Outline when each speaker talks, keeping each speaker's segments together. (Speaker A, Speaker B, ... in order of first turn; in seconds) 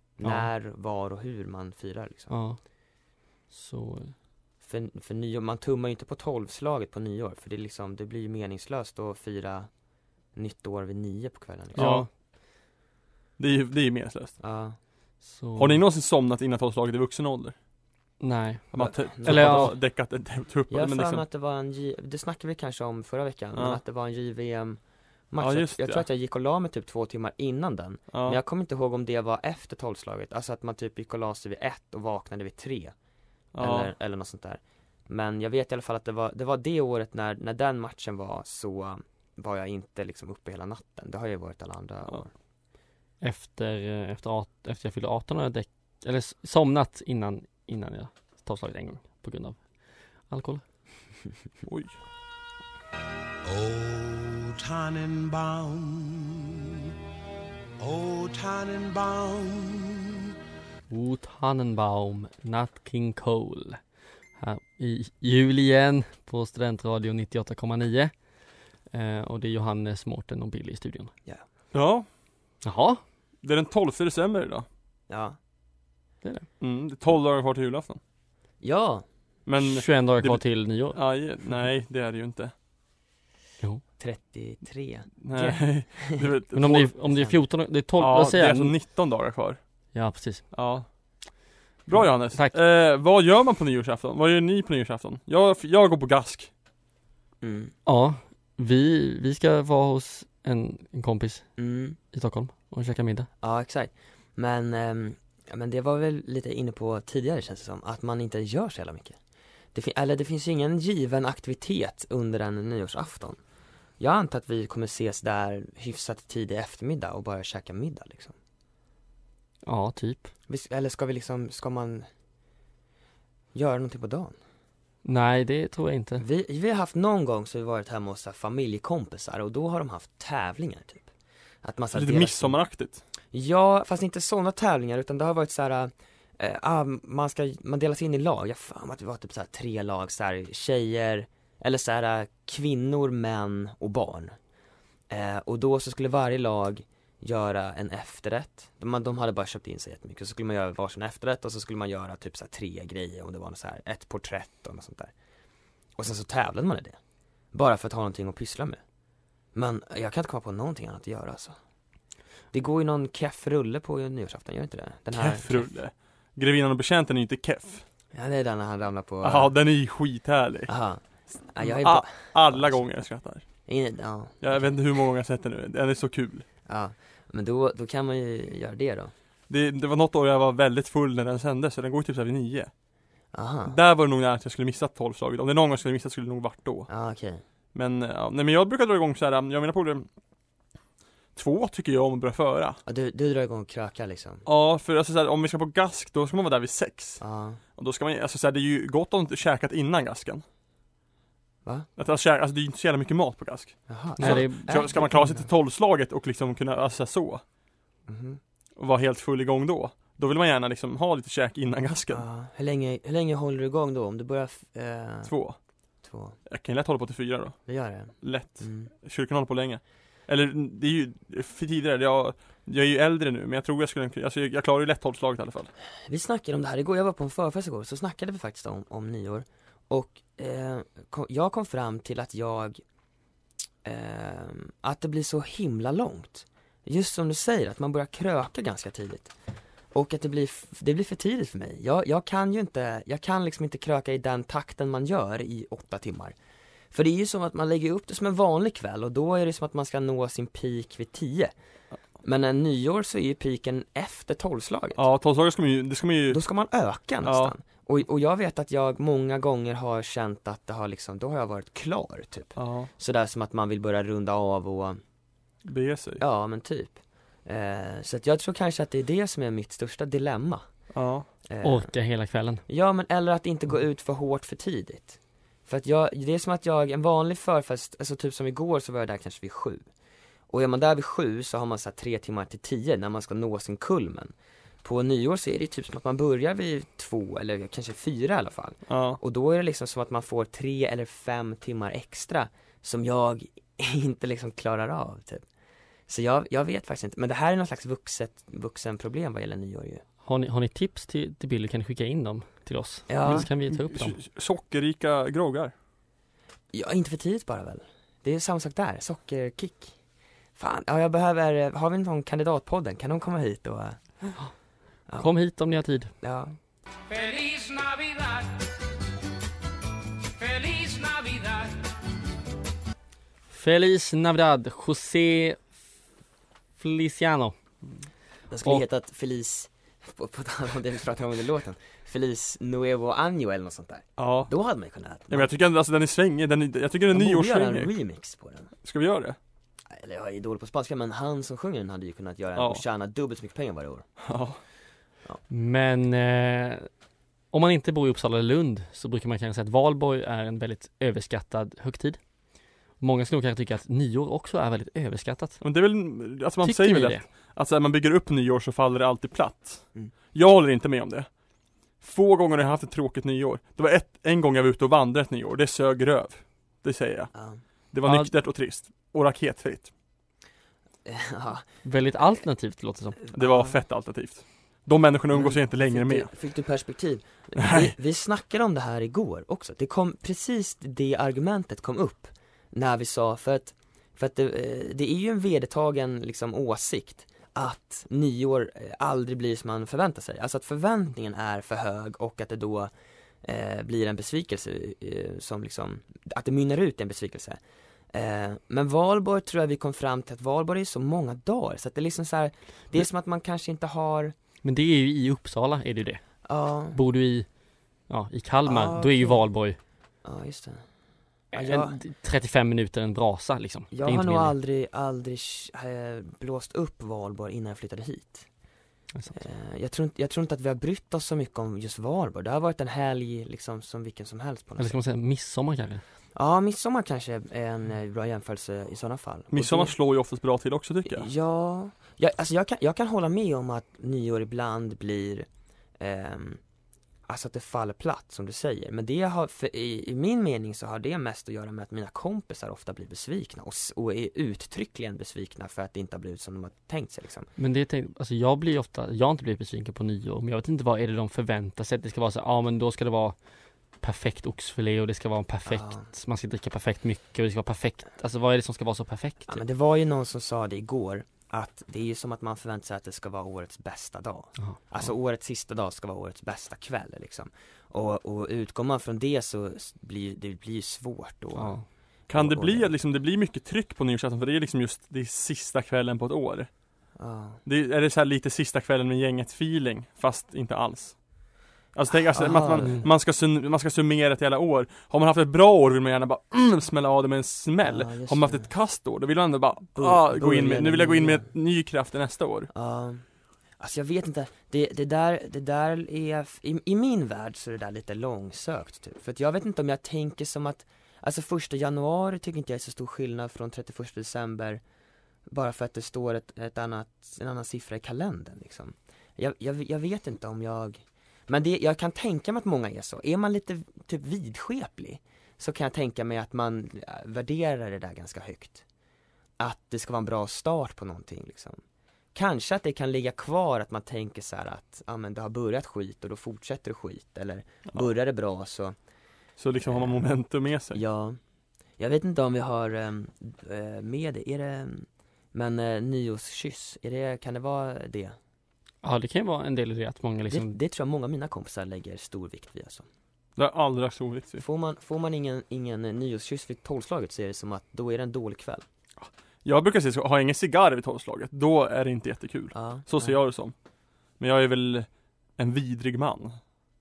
Speaker A: 0.2-2.3, 4.6-9.7, 10.3-11.9, 14.4-14.8, 18.8-19.8, 20.7-24.8, 25.3-32.9, 33.6-42.3, 75.1-75.4, 78.6-79.0, 84.0-86.3, 87.0-87.4, 97.4-97.7, 101.6-102.0, 103.4-109.2, 109.7-113.4, 114.0-118.3, 120.5-122.1, 123.5-124.3, 126.2-131.1, 131.6-132.6, 133.3-144.3, 145.1-155.1, 156.0-157.0, 157.5-158.8, 159.5-161.6, 162.5-165.7, 168.1-169.5, 170.7-172.8, 173.7-174.6, 176.7-179.1, 183.3-183.8, 186.9-187.4, 192.8-194.4, 197.2-197.6, 203.9-205.5, 208.1-208.4, 212.1-215.3, 216.0-216.4, 217.7-218.9, 226.0-232.8, 233.8-239.3, 239.9-246.3, 246.9-251.5, 252.2-255.0, 256.3-265.0, 266.2-270.6, 271.5-271.9, 272.7-279.9, 280.5-295.4, 296.1-300.0, 303.1-303.5, 306.7-309.9, 310.6-314.2, 316.2-316.6, 328.5-335.5, 337.1-338.7, 339.9-344.1, 367.3-367.6, 371.0-371.7, 373.2-373.8, 375.3-392.9, 393.4-397.6, 398.1-404.3, 406.4-407.0, 408.6-409.4, 410.2-410.8, 411.5-412.0, 413.9-418.5, 419.3-424.9, 426.3-429.9, 431.1-435.5, 436.0-436.6, 437.3-447.5, 455.6-456.1, 459.5-472.9, 477.2-477.6, 482.3-483.1, 487.8-488.7, 489.9-491.5, 492.7-493.2, 493.8-504.8, 505.5-518.8, 519.6-521.8, 522.3-529.0, 529.9-530.2, 530.9-531.4, 532.0-538.4, 540.5-543.1, 544.6-548.8, 552.7-553.3
Speaker B: 0.2-0.5, 2.3-2.6, 3.5-4.1, 11.8-12.1, 15.2-15.8, 18.2-18.7, 19.2-19.7, 43.2-49.6, 50.3-50.6, 60.9-63.8, 64.4-68.1, 68.9-71.1, 72.6-73.0, 79.6-81.0, 86.5-88.7, 89.9-90.5, 91.9-92.5, 97.8-101.5, 102.1-103.3, 119.6-120.3, 125.0-126.2, 204.2-204.9, 271.6-272.6, 300.2-304.2, 315.2-316.1, 323.5-325.6, 326.8-327.5, 345.5-346.9, 347.5-352.2, 353.0-355.6, 356.6-357.2, 368.0-368.3, 371.8-373.2, 404.6-406.2, 406.9-407.5, 408.1-409.8, 411.5-414.5, 424.8-426.0, 447.6-453.3, 454.0-459.6, 471.5-471.8, 482.8-483.1, 539.0-540.8
Speaker C: 11.7-12.1, 13.4-14.3, 15.6-17.5, 18.7-21.2, 23.5-23.8, 25.4-26.0, 28.1-28.4, 33.5-33.9, 51.6-52.0, 71.7-72.1, 73.4-74.7, 76.6-78.0, 79.5-82.5, 85.2-86.9, 88.0-89.6, 90.5-90.9, 91.9-96.5, 131.9-133.0, 165.1-167.8, 169.2-170.7, 171.6-173.4, 174.4-176.4, 179.5-182.7, 183.7-186.9, 187.7-190.1, 191.3-192.8, 194.4-197.2, 197.8-200.4, 202.0-207.4, 208.8-212.2, 215.2-215.6, 216.5-217.6, 218.2-225.7, 254.9-256.4, 257.2-257.5, 262.6-262.9, 265.7-266.2, 270.9-271.3, 288.9-289.2, 303.2-305.7, 334.2-334.5, 335.3-337.9, 338.8-339.4, 342.6-342.8, 344.2-344.6, 355.6-361.3, 362.0-367.3, 367.9-369.9, 373.3-376.3, 377.6-377.9, 429.5-431.3, 472.3-476.7, 477.6-481.2, 481.9-492.7, 529.6-531.0, 543.6-544.6, 549.2-553.7, 554.4-556.6
Speaker D: 53.5-56.7, 57.8-60.2
Speaker E: 317.1-318.6, 320.4-321.8